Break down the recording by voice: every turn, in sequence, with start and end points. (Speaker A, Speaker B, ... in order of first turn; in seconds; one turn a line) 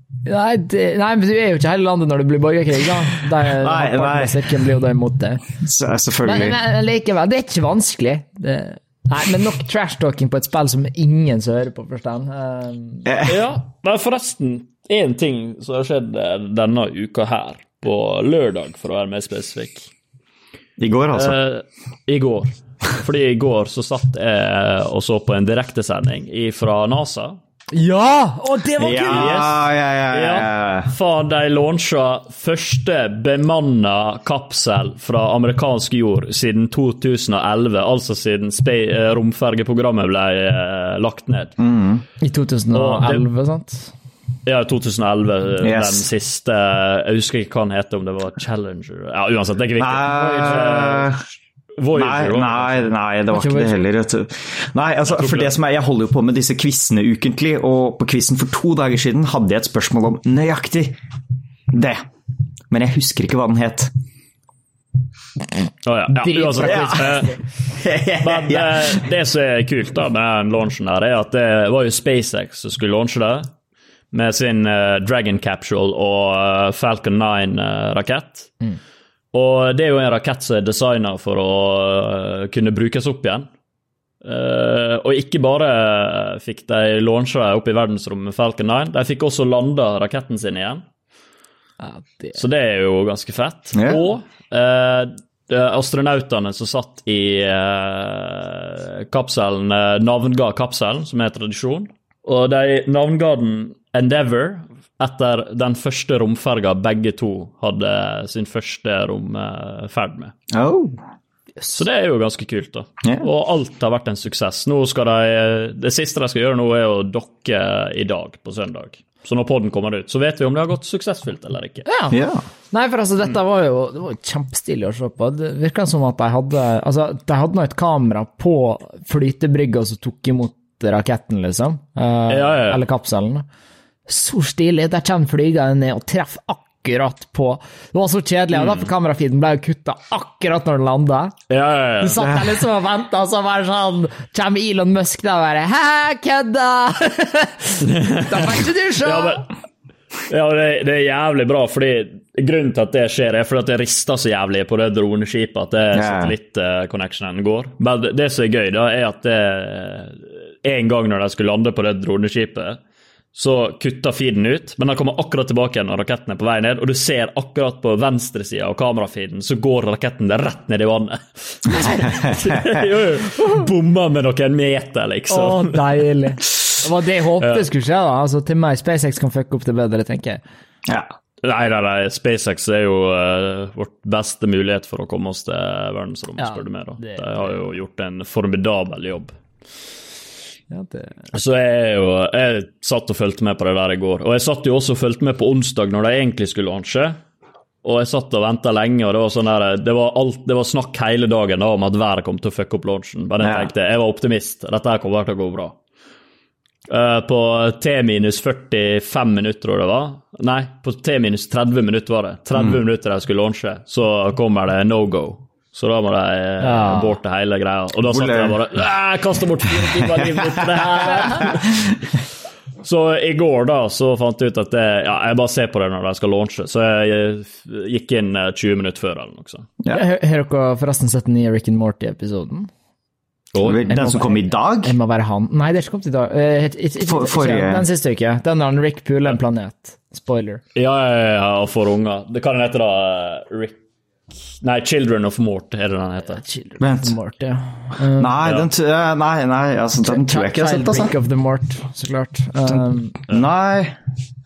Speaker A: 0.2-5.4
Speaker B: 3.5-4.5
Speaker B: 5.6-6.6
Speaker A: 6.2-13.1
Speaker B: 13.1-13.3
Speaker C: 13.2-19.9
Speaker B: 20.8-21.4
Speaker C: 21.1-27.4
Speaker A: 27.7-29.4
Speaker B: 28.8-30.9
Speaker C: 28.9-41.5
Speaker B: 41.6-42.0
Speaker A: 42.2-43.9
Speaker C: 42.7-43.2
Speaker C: 44.4-51.1
Speaker B: 45.6-46.1
Speaker B: 49.8-51.2
Speaker C: 51.8-52.9
Speaker B: 51.9-61.0
Speaker A: 53.3-53.8
Speaker C: 55.1-55.5
Speaker B: 61.7-62.0
Speaker B: 62.7-63.9
Speaker C: 65.8-67.4
Speaker A: 66.1-67.4
Speaker B: 66.7-67.1
Speaker B: 67.8-69.0
Speaker C: 68.2-73.5
Speaker C: 74.1-78.6
Speaker C: 79.3-83.5
Speaker C: 84.2-90.8
Speaker A: 91.8-92.4
Speaker C: 92.3-110.3
Speaker B: 93.7-94.0
Speaker B: 110.5-111.0
Speaker C: 111.7-121.8
Speaker A: 121.9-122.2
Speaker B: 122.1-122.4
Speaker A: 122.7-133.5
Speaker C: 132.3-132.8
Speaker A: 134.1-141.3
Speaker C: 141.5-142.3
Speaker A: 142.0-149.5
Speaker C: 147.8-149.5
Speaker C: 150.3-162.8
Speaker B: 155.9-156.3
Speaker C: 163.3-175.9
Speaker B: 172.0-172.8
Speaker A: 175.3-180.4
Speaker B: 180.8-181.1
Speaker C: 181.4-189.4
Speaker A: 186.4-187.5
Speaker A: 190.7-191.3
Speaker C: 191.3-197.2
Speaker C: 197.8-205.8
Speaker B: 203.4-203.7
Speaker C: 206.9-221.9
Speaker A: 216.6-217.2
Speaker B: 218.1-218.6
Speaker B: 219.8-222.0
Speaker C: 222.8-229.7
Speaker A: 229.9-232.7
Speaker C: 233.5-233.9
Speaker B: 233.6-234.9
Speaker A: 233.9-240.6
Speaker B: 237.0-237.8
Speaker C: 240.7-243.8
Speaker C: 244.5-246.4
Speaker A: 246.4-248.4
Speaker B: 246.8-247.1
Speaker B: 248.2-251.1
Speaker A: 250.0-253.2
Speaker B: 253.3-254.0